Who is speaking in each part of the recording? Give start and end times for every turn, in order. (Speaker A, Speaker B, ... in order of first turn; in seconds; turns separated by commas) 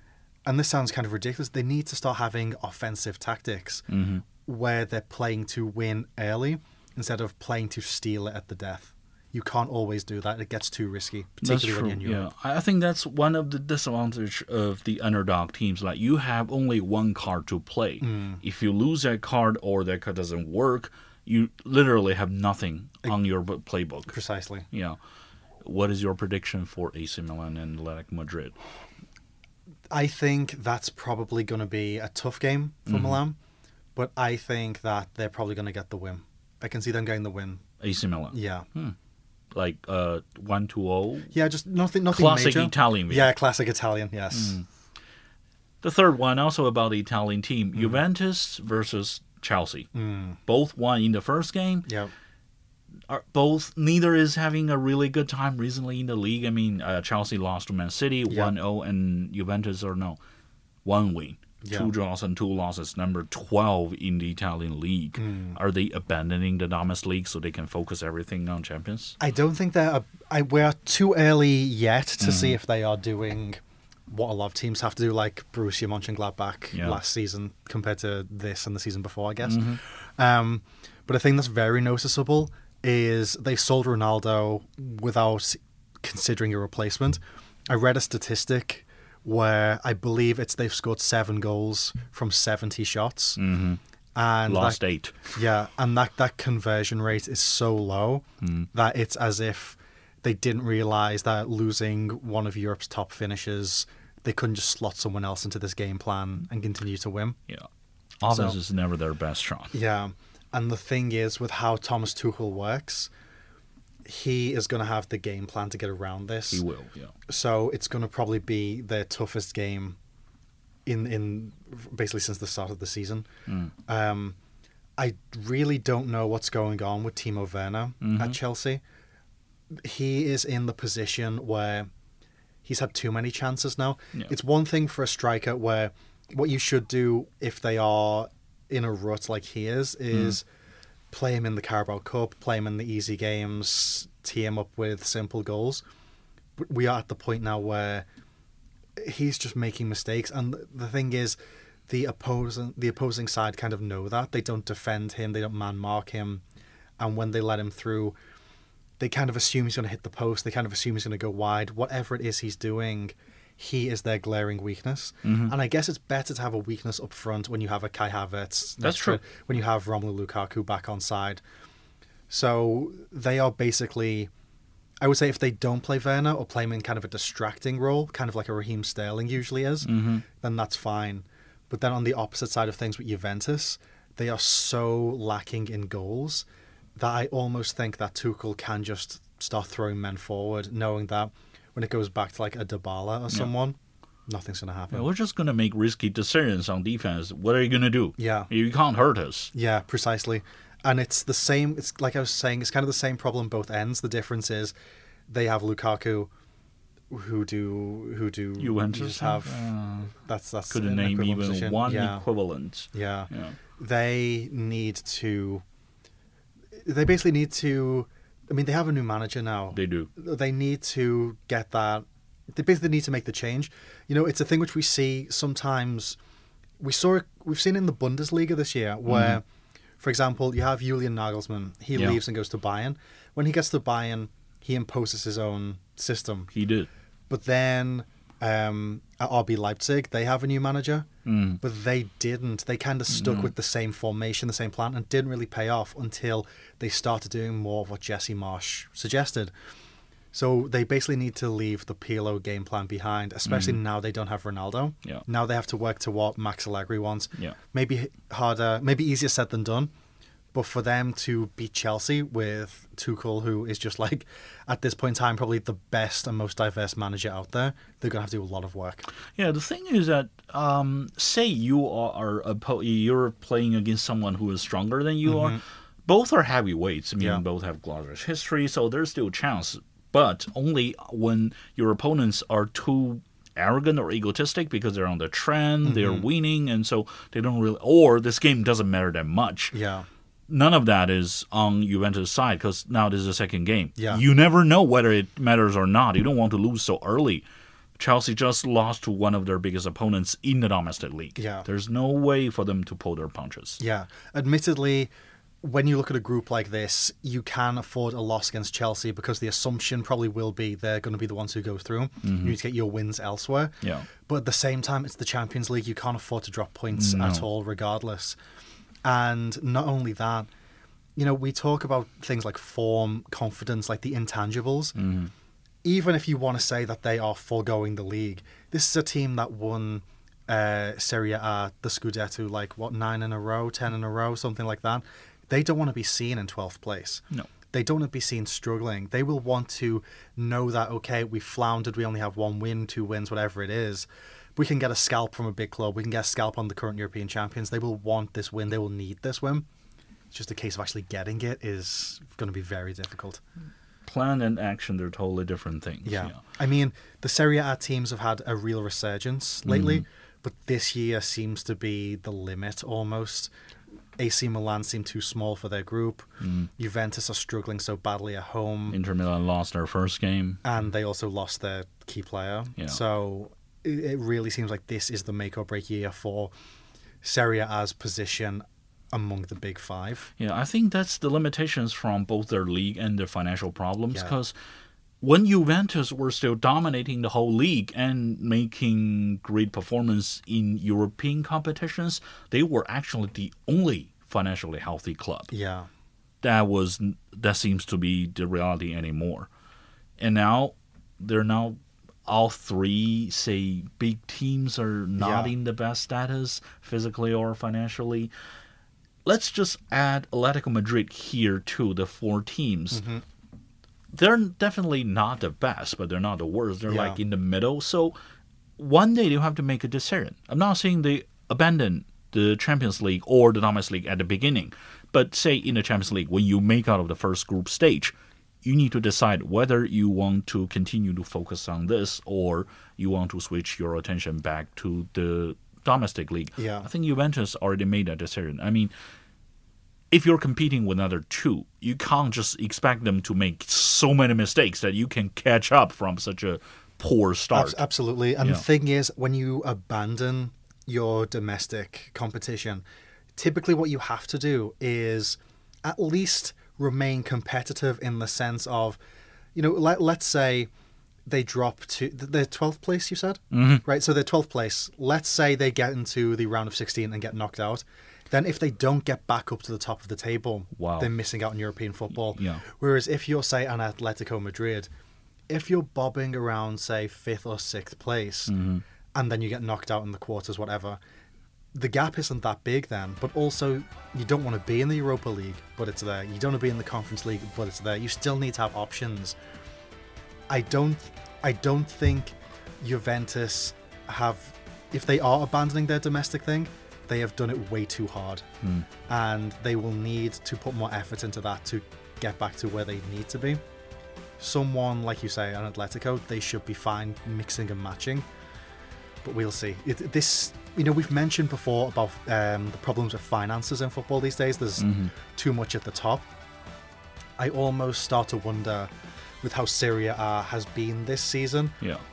Speaker A: 0.5-3.9, Speaker B: 3.9-4.2, Speaker A: 4.4-12.3, Speaker B: 11.4-24.1, Speaker A: 18.0-18.4, Speaker A: 24.1-24.7, Speaker B: 24.7-25.0, Speaker B: 25.6-28.6, Speaker A: 29.9-33.4, Speaker B: 32.9-33.2, Speaker A: 34.0-37.6, Speaker B: 37.8-39.0, Speaker A: 38.3-38.7, Speaker B: 39.5-41.3, Speaker A: 41.3-44.6, Speaker B: 42.1-43.3, Speaker B: 44.3-44.6, Speaker B: 45.8-49.9, Speaker A: 49.9-50.4, Speaker B: 50.5-51.9, Speaker A: 51.9-52.1, Speaker B: 53.1-60.2, Speaker B: 60.9-69.2, Speaker A: 61.6-61.9, Speaker A: 65.2-65.6, Speaker A: 69.2-73.6, Speaker B: 72.2-72.6, Speaker A: 74.1-93.4, Speaker B: 76.7-77.0, Speaker B: 79.4-79.8, Speaker B: 93.4-93.8, Speaker A: 94.1-94.8, Speaker B: 94.5-95.3, Speaker A: 95.3-107.4, Speaker B: 98.4-98.7, Speaker B: 108.2-109.7, Speaker A: 108.3-108.6, Speaker A: 109.7-113.1, Speaker A: 114.0-116.6, Speaker B: 116.5-117.1, Speaker A: 117.3-120.0, Speaker A: 120.9-123.3, Speaker A: 123.9-124.4, Speaker A: 125.0-128.8, Speaker B: 128.0-128.4, Speaker A: 129.8-131.9, Speaker A: 132.6-140.4, Speaker B: 140.1-140.4, Speaker A: 141.1-145.8, Speaker A: 146.6-148.0, Speaker A: 149.0-151.4, Speaker A: 151.9-156.4, Speaker A: 157.0-158.2, Speaker A: 159.0-171.4, Speaker B: 165.2-165.6, Speaker B: 168.8-169.2, Speaker A: 172.3-174.3, Speaker A: 175.0-186.5, Speaker B: 179.8-180.2, Speaker A: 187.0-195.1, Speaker B: 194.9-199.5, Speaker A: 198.2-198.5, Speaker A: 199.5-204.7, Speaker A: 205.3-206.3, Speaker A: 207.1-212.2, Speaker B: 208.6-210.1, Speaker B: 210.7-213.6, Speaker A: 212.9-215.6, Speaker A: 216.8-226.2, Speaker B: 219.7-220.1, Speaker A: 226.8-229.4, Speaker B: 229.1-229.4, Speaker A: 230.0-236.5, Speaker B: 231.9-232.2, Speaker B: 236.5-236.9, Speaker A: 237.3-241.1, Speaker B: 241.2-241.6, Speaker A: 241.6-249.5, Speaker B: 243.1-243.5, Speaker A: 250.3-259.9, Speaker B: 253.4-253.8, Speaker A: 260.5-269.1, Speaker B: 269.4-289.8, Speaker A: 275.2-275.6, Speaker A: 285.8-286.3, Speaker A: 289.7-290.1, Speaker B: 290.5-297.4, Speaker A: 294.0-294.2, Speaker B: 298.0-303.8, Speaker A: 301.4-301.7, Speaker A: 303.8-318.4, Speaker B: 312.2-312.6, Speaker B: 313.8-314.1, Speaker B: 316.9-317.5, Speaker A: 319.0-320.5, Speaker A: 321.1-325.0, Speaker B: 324.9-325.3, Speaker A: 325.8-349.7, Speaker A: 350.3-353.4, Speaker B: 354.1-356.4, Speaker A: 356.0-363.5, Speaker B: 359.7-360.0, Speaker A: 364.2-369.0, Speaker B: 366.4-366.7, Speaker B: 368.9-370.6, Speaker A: 370.6-376.5, Speaker A: 377.2-380.3, Speaker B: 380.4-384.5, Speaker A: 384.1-384.4, Speaker B: 385.2-395.5, Speaker A: 395.5-395.9, Speaker B: 396.4-399.5, Speaker B: 400.2-408.3, Speaker A: 405.2-405.5, Speaker B: 409.2-413.0, Speaker A: 412.9-413.2, Speaker B: 414.1-418.2, Speaker A: 416.9-417.2, Speaker B: 418.8-438.9, Speaker A: 436.6-436.9, Speaker B: 440.1-447.8, Speaker A: 447.5-452.8, Speaker A: 453.4-459.0, Speaker A: 459.5-460.7, Speaker A: 461.3-474.9, Speaker B: 463.5-463.8, Speaker B: 470.8-471.1, Speaker B: 472.2-472.6, Speaker A: 475.5-478.5, Speaker B: 478.5-478.8, Speaker A: 479.1-481.0, Speaker A: 481.7-489.4, Speaker A: 490.5-498.4, Speaker A: 499.1-503.6, Speaker A: 504.4-508.2, Speaker A: 509.2-516.3, Speaker B: 514.8-515.1, Speaker A: 517.4-518.9, Speaker A: 519.4-521.8